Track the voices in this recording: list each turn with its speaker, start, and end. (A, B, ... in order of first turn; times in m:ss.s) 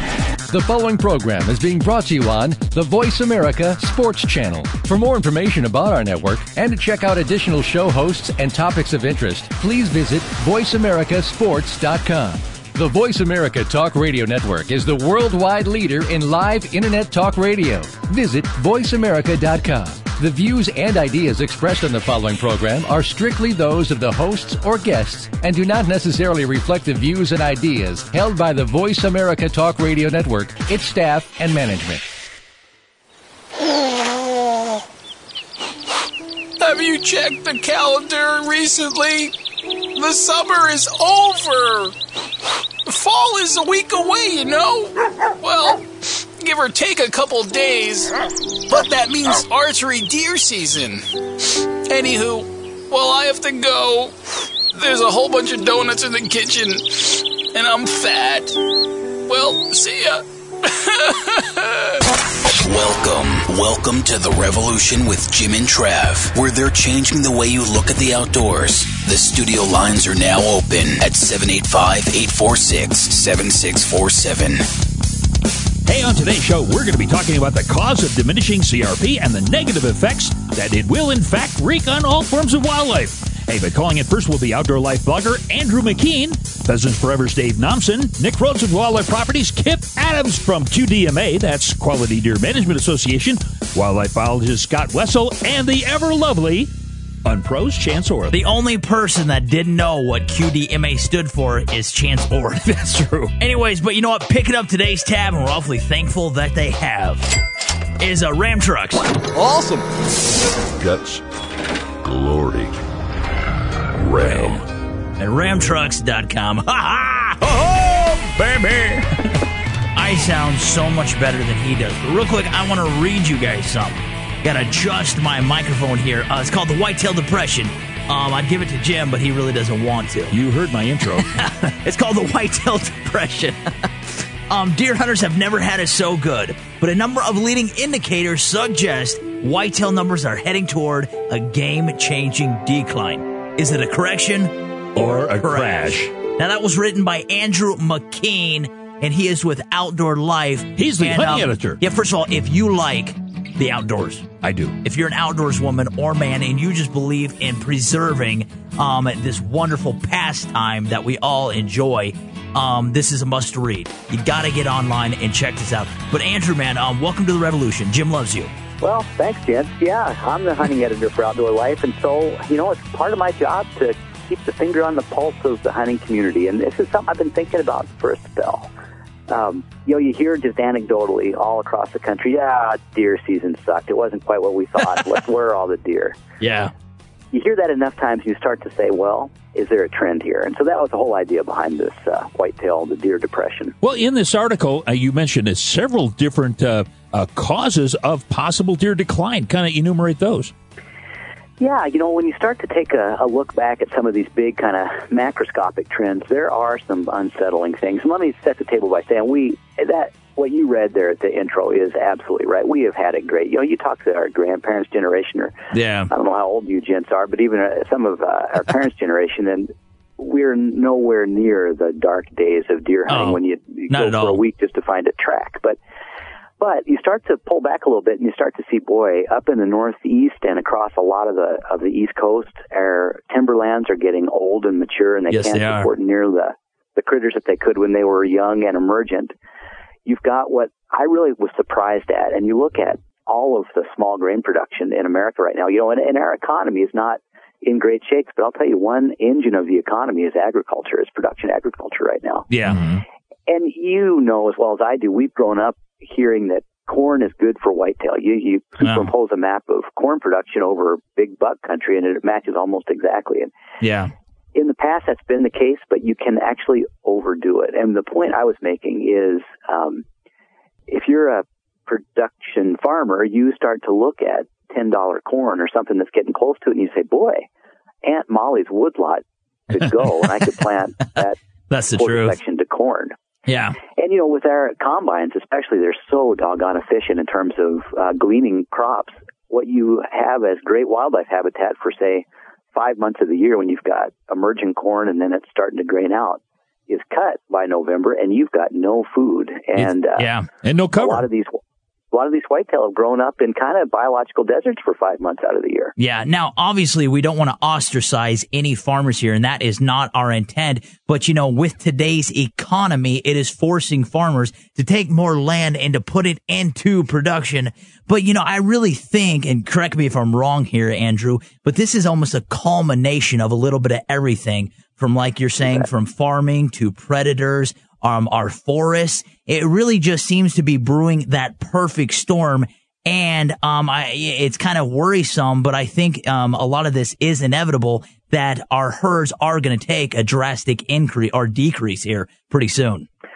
0:00.5-0:32.0 A
0:36.6-0:39.3 B
0:39.9-0:41.9 B
0:42.8-0:45.9 B
0:46.4-0:48.1 B
0:48.7-0:54.2 B
0:48.7-0:49.4 C
0:54.7-0:58.6 B
0:59.2-1:02.0 B
1:02.6-1:14.7 C
1:15.8-1:36.7 D
1:37.2-1:38.4 D
1:38.3-1:42.7 E
1:42.6-1:43.3 D
1:43.4-1:47.3 E
1:48.0-1:49.1 E
1:50.7-1:51.2 F
1:52.0-1:52.7 F
1:54.0-1:54.6 F
1:54.2-1:54.5 E
1:55.2-1:59.1 E
1:59.9-2:10.3 E
2:10.3-2:11.3 D
2:11.2-2:13.6 E
2:14.5-2:34.3 E
2:24.9-2:26.1 D
2:30.8-2:31.8 D
2:34.4-2:34.8 D
2:34.8-2:48.5 E
2:48.8-2:58.7 G
2:59.3-3:06.2 G
3:06.4-3:06.7 E
3:07.3-3:13.8 G
3:13.8-3:20.5 D
3:21.6-3:35.6 G
3:35.7-3:36.1 E
3:36.1-3:45.8 G
3:43.1-3:44.4 E
3:46.6-3:59.3 G
3:55.3-3:55.9 E
4:00.0-4:12.5 G
4:12.5-4:13.0 E
4:12.6-4:13.0 D
4:13.5-4:23.5 G
4:23.8-4:24.1 E
4:24.5-4:30.0 G
4:30.9-4:37.4 G
4:38.0-4:41.4 G
4:41.7-4:42.4 E
4:41.9-4:43.1 G
4:43.5-4:43.8 E
4:43.9-5:00.3 G
5:00.2-5:00.5 E
5:00.6-5:01.2 D
5:00.9-5:01.6 G
5:02.1-5:05.9 G
5:06.0-5:43.1 E